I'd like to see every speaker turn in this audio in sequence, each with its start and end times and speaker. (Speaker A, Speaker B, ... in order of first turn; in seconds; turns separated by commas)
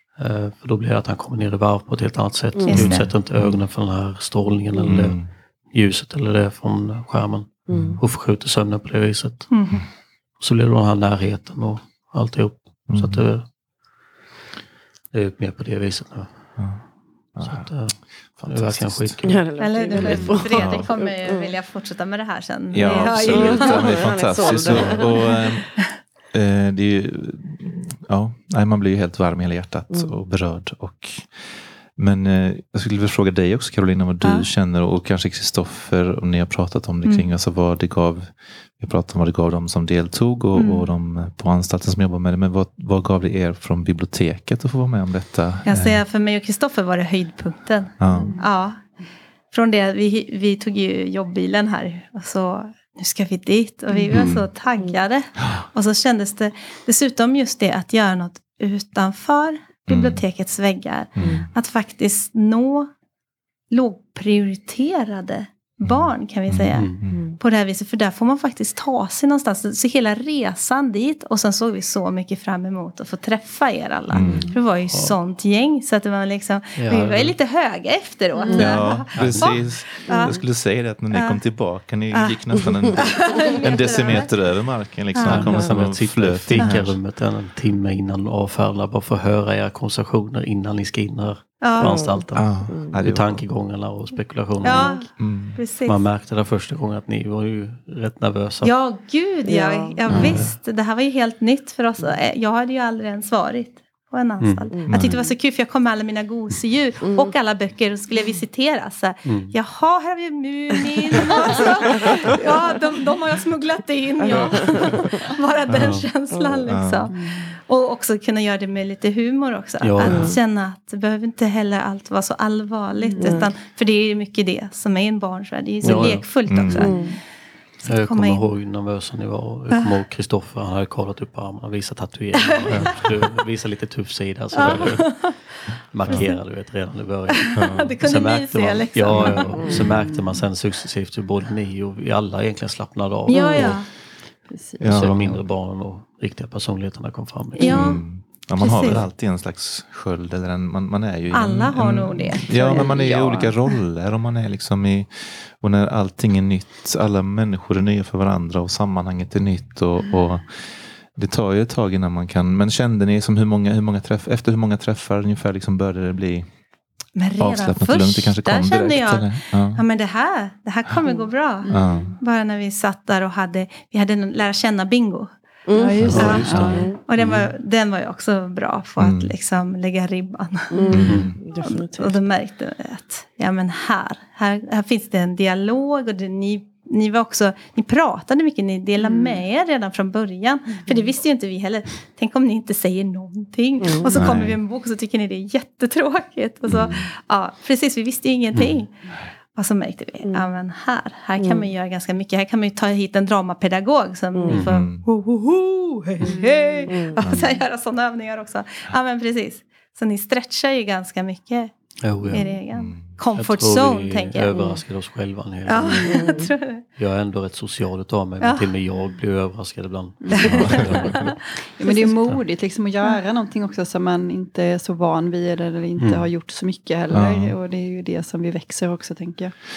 Speaker A: 0.1-9.5, Speaker B: 2.5-2.9, Speaker C: 2.6-3.1, Speaker D: 2.8-3.6, Speaker D: 4.8-5.3, Speaker D: 7.7-8.0, Speaker C: 9.5-9.9, Speaker A: 10.4-13.5, Speaker D: 12.9-13.3, Speaker A: 15.1-16.4, Speaker D: 16.6-16.8, Speaker D: 17.3-19.2, Speaker A: 17.4-19.4, Speaker B: 19.2-21.5, Speaker C: 19.6-25.4, Speaker D: 20.1-20.9, Speaker D: 22.7-25.8, Speaker B: 22.8-25.3, Speaker D: 26.3-46.0, Speaker B: 29.9-30.2, Speaker C: 34.2-34.5, Speaker C: 37.0-37.3, Speaker C: 40.5-40.9, Speaker C: 45.6-48.8, Speaker D: 48.0-48.4, Speaker E: 48.1-48.4, Speaker C: 49.5-62.9, Speaker D: 54.1-54.4, Speaker D: 59.9-60.2, Speaker D: 61.1-61.5, Speaker B: 61.2-61.5, Speaker C: 63.7-80.4, Speaker D: 65.8-67.3, Speaker A: 66.7-67.0, Speaker B: 67.0-67.4, Speaker D: 74.1-74.5, Speaker A: 74.2-75.2, Speaker A: 76.8-77.3, Speaker B: 78.5-78.8, Speaker D: 78.5-87.0, Speaker A: 79.2-79.5, Speaker C: 81.1-81.4, Speaker C: 82.1-84.4, Speaker C: 85.1-85.6, Speaker A: 85.2-95.1, Speaker B: 85.5-85.7, Speaker C: 86.6-86.8, Speaker C: 91.6-92.0, Speaker B: 91.8-93.0, Speaker D: 92.3-93.4, Speaker C: 94.6-96.0, Speaker D: 95.2-95.6, Speaker A: 95.8-98.7, Speaker C: 98.6-127.1, Speaker B: 99.4-100.4, Speaker A: 100.1-100.5, Speaker A: 104.4-105.1, Speaker B: 104.7-105.2, Speaker D: 104.9-105.2, Speaker B: 107.0-107.3, Speaker A: 109.2-109.5, Speaker B: 114.2-115.0, Speaker D: 115.7-116.0, Speaker B: 116.3-116.7, Speaker D: 116.7-117.1, Speaker E: 117.1-117.5, Speaker A: 119.8-120.3, Speaker B: 120.0-120.4, Speaker E: 123.0-123.5, Speaker B: 123.2-123.5, Speaker A: 125.8-126.9, Speaker D: 126.5-126.8, Speaker B: 126.7-127.1, Speaker E: 126.8-127.2, Speaker C: 127.8-128.5, Speaker A: 127.8-143.8, Speaker C: 132.4-133.2, Speaker C: 134.5-136.4, Speaker C: 137.3-139.9, Speaker D: 137.6-137.9, Speaker E: 139.1-140.4, Speaker C: 143.2-143.9, Speaker E: 144.5-145.4, Speaker D: 144.8-145.1, Speaker A: 144.8-147.9, Speaker C: 147.6-149.0, Speaker D: 147.7-166.5, Speaker C: 151.3-153.0, Speaker E: 152.5-153.5, Speaker C: 167.2-175.3, Speaker D: 167.4-169.8, Speaker E: 171.6-172.2, Speaker D: 171.7-172.2, Speaker B: 175.7-177.0, Speaker E: 175.7-176.9, Speaker D: 176.0-176.8, Speaker A: 176.1-177.4, Speaker C: 176.1-211.7, Speaker D: 179.0-179.3, Speaker B: 180.7-182.2, Speaker D: 180.9-181.4, Speaker A: 181.0-181.3, Speaker B: 189.0-189.4, Speaker B: 193.8-194.3, Speaker D: 194.1-194.6, Speaker D: 196.7-197.1, Speaker B: 201.4-201.7, Speaker B: 204.3-204.7, Speaker A: 204.5-204.8, Speaker D: 204.6-205.1, Speaker E: 206.2-206.9, Speaker B: 206.9-207.2, Speaker D: 207.2-207.6, Speaker A: 212.0-212.5, Speaker C: 212.3-214.7, Speaker D: 212.7-213.2, Speaker A: 213.3-216.4, Speaker C: 215.7-216.8, Speaker B: 216.0-216.5, Speaker A: 216.9-221.2, Speaker C: 218.4-218.7, Speaker E: 220.2-221.1, Speaker C: 220.3-222.1, Speaker D: 220.4-221.4, Speaker E: 221.8-229.5, Speaker A: 226.0-226.3, Speaker D: 227.1-227.5